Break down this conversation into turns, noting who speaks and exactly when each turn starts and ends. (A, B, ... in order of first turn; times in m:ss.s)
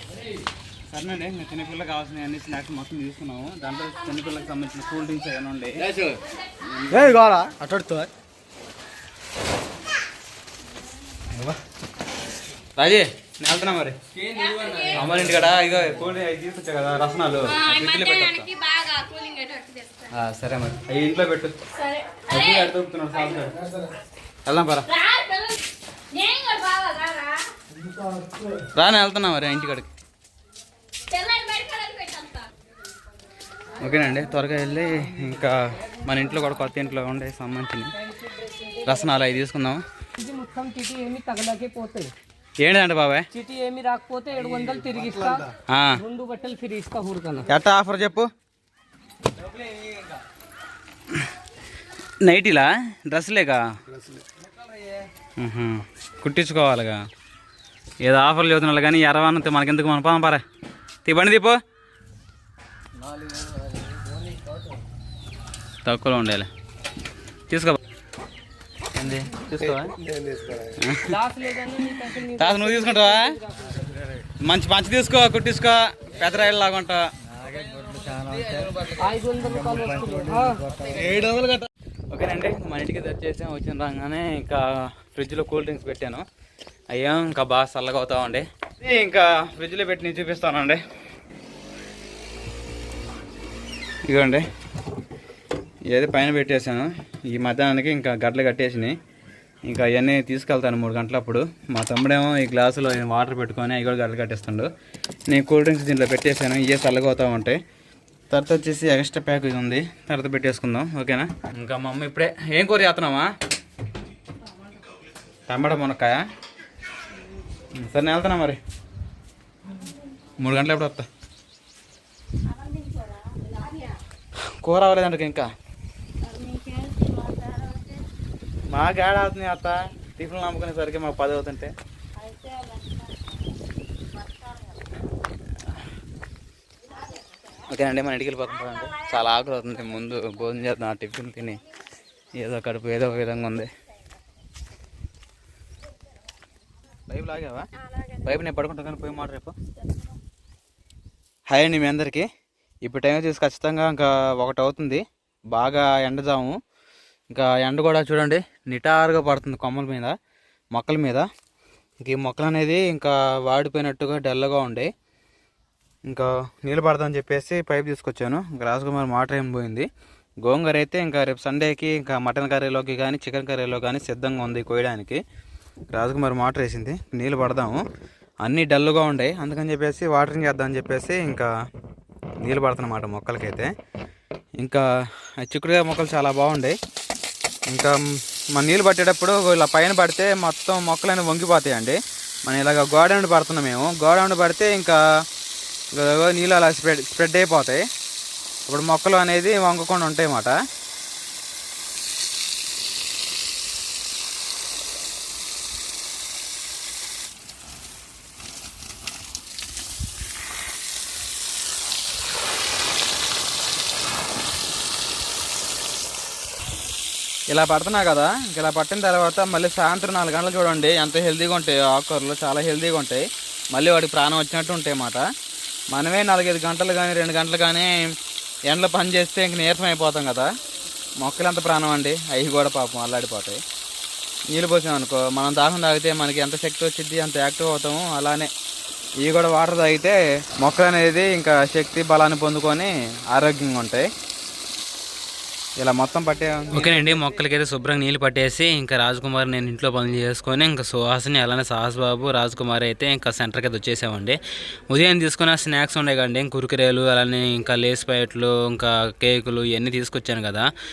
0:00.9-0:06.2 A
0:06.8-0:07.7 A
0:07.0-0:08.1 B
0:12.8-0:14.0 A
0:14.3-0:14.9 C
0:14.7-0:18.5 A
0:17.5-0:20.1 C
0:20.1-0:21.6 A
0:21.8-0:22.6 C
0:22.2-0:23.6 A
0:24.4-0:24.9 A
0:24.9-0:27.5 C
0:28.7-0:29.9 A
0:31.1-0:32.5 C
0:33.8-0:37.9 A
0:38.2-0:38.9 D
0:38.8-0:39.8 A
0:40.2-0:42.1 D
0:42.6-0:43.3 A
0:43.3-0:47.5 D
0:45.7-0:46.0 A
0:47.5-0:48.3 A
0:52.2-0:53.6 A
0:55.4-0:57.0 A
0:58.0-1:00.4 A
1:01.0-1:01.6 A
1:05.8-1:06.5 A
1:07.5-1:07.8 A
1:08.9-1:10.0 A
1:10.7-1:11.2 A
1:11.0-1:13.6 D
1:12.2-1:13.4 A
1:14.4-1:17.1 A
1:17.5-1:18.9 B
1:18.9-1:20.7 D
1:20.7-1:21.2 B
1:20.9-1:26.2 A
1:26.9-1:30.8 A
1:34.0-1:34.5 A
1:35.9-1:39.0 A
1:39.6-1:44.7 A
1:45.3-1:47.6 A
1:48.3-1:53.3 A
1:55.5-1:56.2 A
1:57.7-1:58.6 A
2:00.4-2:01.1 A
2:02.5-2:03.9 C
2:04.6-2:05.5 A
2:06.2-2:08.0 C
2:08.7-2:11.7 A
2:12.2-2:13.1 C
2:17.6-2:21.6 A
2:22.3-2:23.7 A
2:27.1-2:29.5 A
2:31.5-2:32.3 A
2:32.8-2:36.6 A
2:37.3-2:40.2 A
2:40.7-2:41.3 A
2:42.0-2:44.9 A
2:46.1-2:49.9 A
2:50.4-2:55.2 A
2:55.9-2:57.8 A
2:58.4-3:01.5 A
3:02.4-3:03.7 A
3:04.6-3:06.8 A
3:07.7-3:08.0 A
3:08.5-3:15.0 A
3:15.9-3:17.8 A
3:18.6-3:20.6 A
3:37.5-3:45.2 A
3:45.9-3:48.2 A
3:48.7-3:50.5 A
3:51.2-3:53.6 A
3:54.5-3:58.5 A
3:59.2-4:04.1 A
4:05.8-4:20.7 A